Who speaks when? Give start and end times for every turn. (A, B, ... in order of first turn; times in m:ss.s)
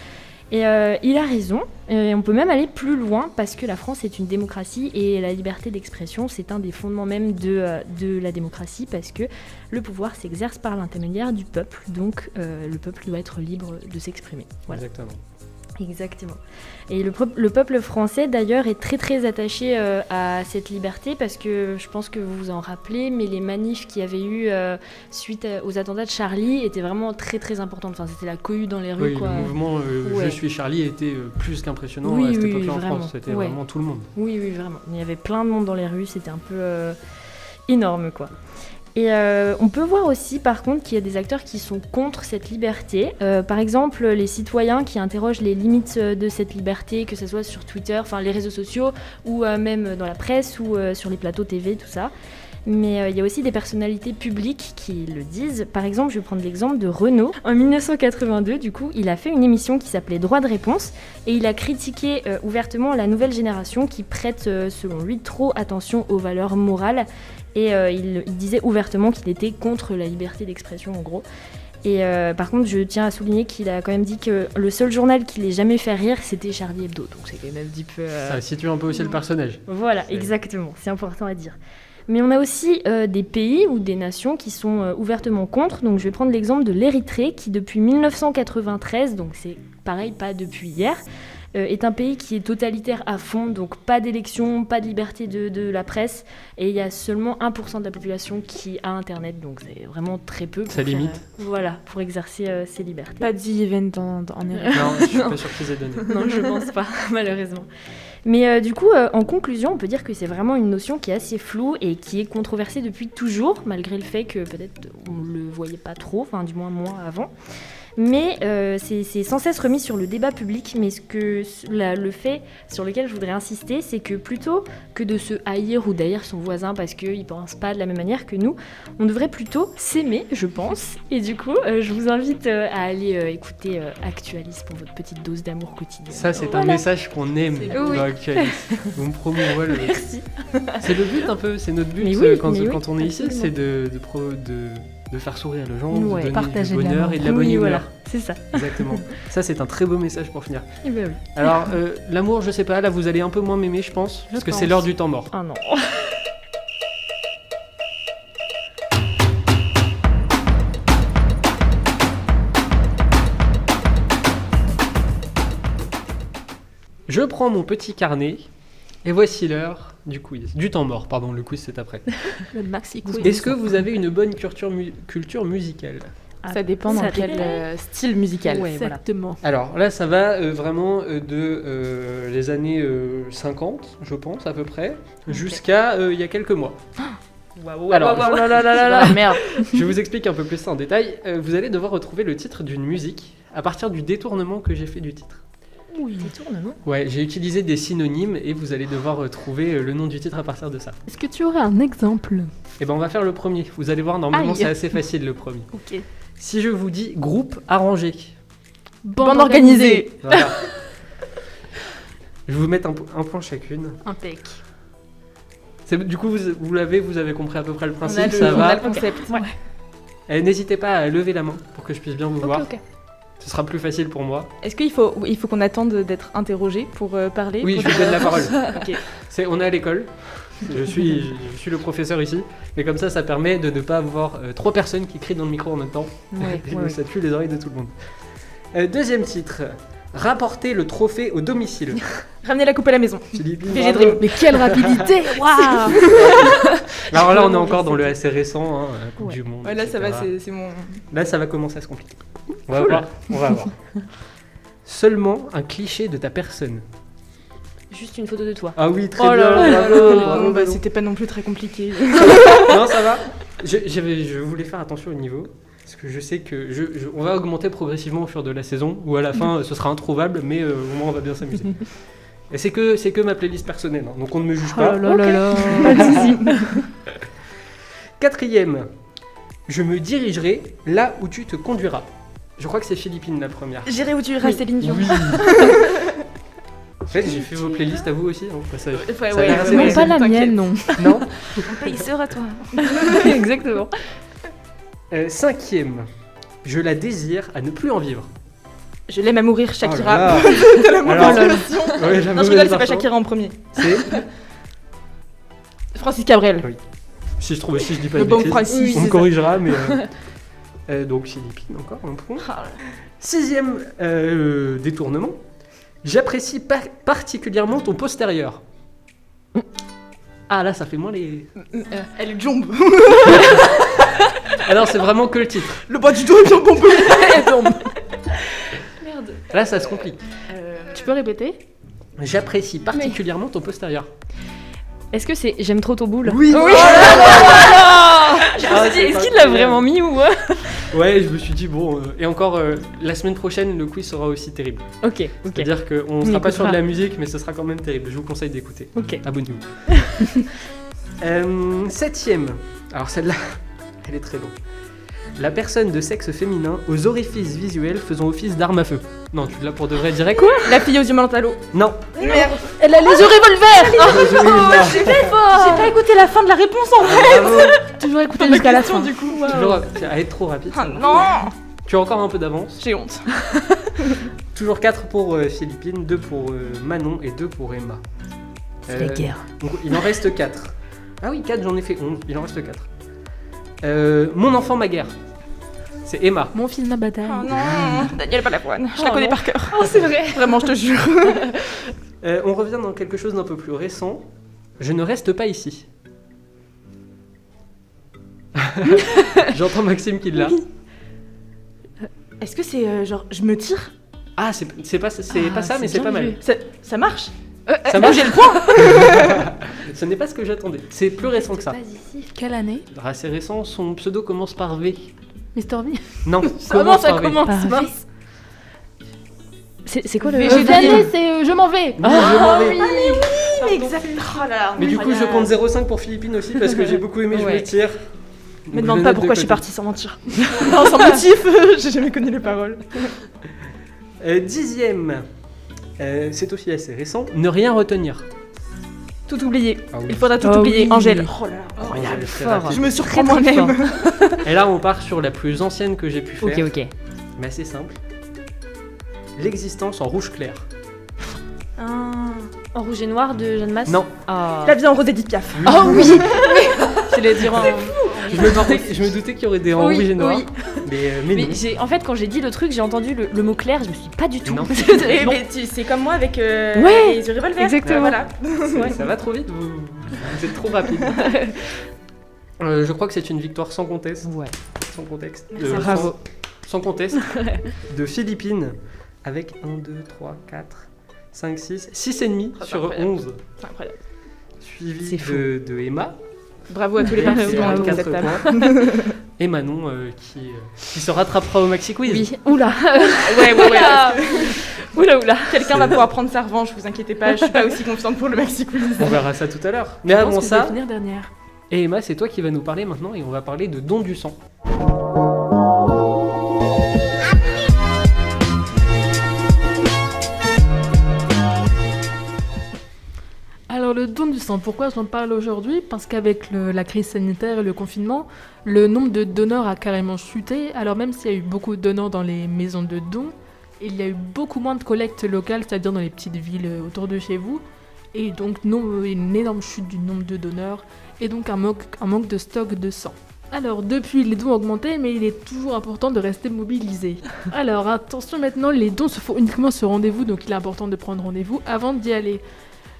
0:00.5-0:14.8 A
0:14.7-0:15.2 B
0:15.8-0:30.4 A
0:29.0-0:34.1 B
0:32.0-0:33.6 A
0:34.1-0:37.0 A
0:37.7-0:38.3 A
0:38.9-0:52.1 A
0:52.6-1:11.2 A
1:11.8-1:18.4 A
1:18.2-1:20.3 B
1:18.9-1:21.6 A
1:22.1-1:31.0 A
1:31.5-1:43.3 A
1:40.7-1:41.2 B
1:43.2-1:45.3 C
1:44.6-1:45.3 A
1:44.7-1:46.1 B
1:46.0-1:47.7 A
1:46.2-1:46.4 C
1:48.2-1:57.3 A
1:58.0-2:16.8 A
2:16.1-2:20.1 B
2:16.4-2:16.8 D
2:17.6-2:18.0 D
2:17.7-2:18.9 A
2:19.5-2:20.8 A
2:20.7-2:27.9 B
2:22.0-2:23.5 A
2:25.9-2:26.4 A
2:26.3-2:27.2 D
2:27.2-2:29.1 A
2:28.5-2:30.8 B
2:30.8-2:31.6 A
2:31.3-2:35.3 B
2:34.3-2:36.2 A
2:47.1-2:48.5 B
2:49.0-2:52.3 B
2:52.5-2:53.5 D
2:53.0-2:53.6 A
2:53.2-2:56.1 B
2:56.4-2:57.6 A
2:56.5-2:58.7 C
2:56.9-2:57.5 D
2:58.4-2:59.0 A
2:58.6-2:59.4 D
2:59.4-3:06.8 B
3:05.3-3:05.6 A
3:07.6-3:09.7 A
3:07.9-3:15.4 B
3:08.0-3:09.4 C
3:15.9-3:16.3 D
3:16.2-3:16.8 A
3:16.8-3:21.0 B
3:21.1-3:22.5 D
3:22.8-3:25.7 B
3:24.3-3:24.7 D
3:25.7-3:26.0 D
3:26.4-3:28.3 B
3:29.0-3:30.0 D
3:29.2-3:30.5 C
3:30.2-3:30.8 B
3:32.5-3:34.0 B
3:34.0-3:34.6 D
3:35.8-3:39.0 B
3:38.0-3:39.4 C
3:38.7-3:39.5 A
3:40.3-3:42.8 B
3:42.4-3:42.8 A
3:43.4-3:44.5 B
3:44.6-3:49.0 C
3:47.6-4:02.2 B
3:48.5-3:48.8 A
3:56.3-3:57.0 A
4:02.4-4:04.5 C
4:03.3-4:05.0 B
4:03.8-4:06.1 D
4:05.4-4:06.0 A
4:05.8-4:06.5 C
4:06.1-4:10.3 B
4:07.1-4:08.1 A
4:09.6-4:11.0 C
4:11.1-4:13.8 B
4:14.8-4:16.8 B
4:17.9-4:20.4 A
4:18.8-4:20.8 B
4:19.5-4:22.9 C
4:22.6-4:31.9 B
4:32.5-4:36.3 B
4:34.8-4:36.3 D
4:34.8-4:36.8 A
4:35.6-4:36.8 C
4:38.2-4:38.9 B
4:39.7-4:44.0 B
4:43.8-4:46.2 C
4:44.8-4:45.6 B
4:47.1-4:50.1 B
4:48.9-4:50.6 C
4:49.4-4:51.2 D
4:51.0-4:51.9 B
4:51.6-4:53.3 C
4:52.8-4:54.0 A
4:55.1-4:56.1 B
4:56.6-4:58.3 B
4:59.1-5:04.2 C
4:59.8-5:03.1 B
5:01.2-5:01.7 A
5:03.7-5:04.2 B
5:05.9-5:06.7 C
5:07.4-5:10.1 B
5:08.1-5:09.4 C
5:08.7-5:10.0 A
5:10.9-5:12.5 B
5:12.4-5:12.8 C
5:13.2-5:15.4 B
5:16.0-5:18.6 B
5:20.5-5:21.5 B
5:21.8-5:22.0 A
5:21.9-5:24.0 C
5:24.6-5:25.8 B
5:25.8-5:27.9 C
5:29.0-5:29.4 A
5:29.5-5:30.2 B
5:30.5-5:31.0 C
5:30.9-5:31.6 D
5:32.2-5:34.1 B
5:35.1-5:40.9 A
5:36.2-5:37.7 B
5:36.5-5:38.9 C
5:38.5-5:39.8 B
5:40.9-5:50.4 B
5:45.0-5:45.7 A
5:46.2-5:46.8 A
5:48.9-5:49.2 A
5:49.9-5:50.3 A
5:51.2-5:54.5 B
5:55.4-6:00.9 B
6:00.6-6:02.7 C
6:01.7-6:02.2 B
6:02.2-6:05.9 D
6:03.8-6:09.9 C
6:03.9-6:05.4 B
6:05.5-6:05.8 A
6:07.0-6:07.8 B
6:07.8-6:09.7 D
6:09.4-6:12.8 B
6:10.7-6:11.5 C
6:12.8-6:13.4 C
6:14.0-6:14.2 C
6:14.5-6:18.0 B
6:18.8-6:22.9 B
6:18.9-6:20.0 A
6:23.8-6:25.1 B
6:26.0-6:26.6 B
6:26.5-6:27.6 D
6:27.2-6:31.5 C
6:29.0-6:30.6 A
6:32.2-6:34.3 B
6:34.8-6:35.8 B
6:38.6-6:40.6 B
6:39.1-6:39.4 A
6:42.4-6:43.9 C
6:44.4-6:46.4 B
6:45.3-6:46.4 A
6:46.4-6:47.3 C
6:47.7-6:48.8 A
6:47.8-6:49.5 C
6:47.9-6:51.8 B
6:51.3-6:52.3 A
6:52.3-6:52.9 D
6:52.9-6:55.1 B
6:55.5-6:58.0 D
6:56.2-6:57.5 B
6:57.2-6:57.5 C
6:57.4-6:57.9 A
6:59.8-7:01.1 A
7:00.2-7:01.1 C
7:00.4-7:02.8 D
7:02.0-7:02.8 B
7:02.0-7:03.9 A
7:02.2-7:05.6 C
7:04.8-7:08.0 B
7:07.3-7:07.7 A
7:08.6-7:09.6 B
7:08.7-7:13.1 C
7:10.3-7:10.9 A
7:14.2-7:15.2 B
7:16.0-7:18.2 B
7:19.3-7:24.3 C
7:19.9-7:20.3 B
7:20.4-7:24.4 A
7:21.9-7:22.9 B
7:24.4-7:26.7 B
7:26.4-7:26.9 A
7:27.4-7:28.0 B
7:29.4-7:30.6 B
7:31.8-7:32.5 C
7:32.7-7:34.8 A
7:34.6-7:38.8 C
7:35.6-7:36.3 B
7:35.6-7:37.0 A
7:37.1-7:37.9 D
7:37.6-7:38.9 A
7:38.2-7:41.6 B
7:39.8-7:45.4 A
7:44.4-7:45.0 B
7:44.8-7:49.0 C
7:46.7-7:48.2 A
7:47.8-7:48.1 B
7:48.7-7:49.0 A
7:48.7-7:51.4 B
7:51.2-7:51.5 A
7:52.6-7:54.3 B
7:54.2-7:54.5 A
7:54.9-8:03.4 B
7:55.5-7:56.1 C
7:55.6-7:56.2 A
7:57.3-7:57.6 A
8:02.6-8:04.0 C
8:04.6-8:06.2 B
8:05.0-8:05.4 A
8:06.7-8:09.1 C
8:07.1-8:12.3 B
8:07.1-8:08.7 A
8:12.0-8:15.8 A
8:13.2-8:14.6 C
8:15.5-8:19.2 C
8:15.6-8:16.0 B
8:19.0-8:20.8 B
8:20.1-8:21.3 D
8:21.7-8:24.4 B
8:33.7-9:02.4 D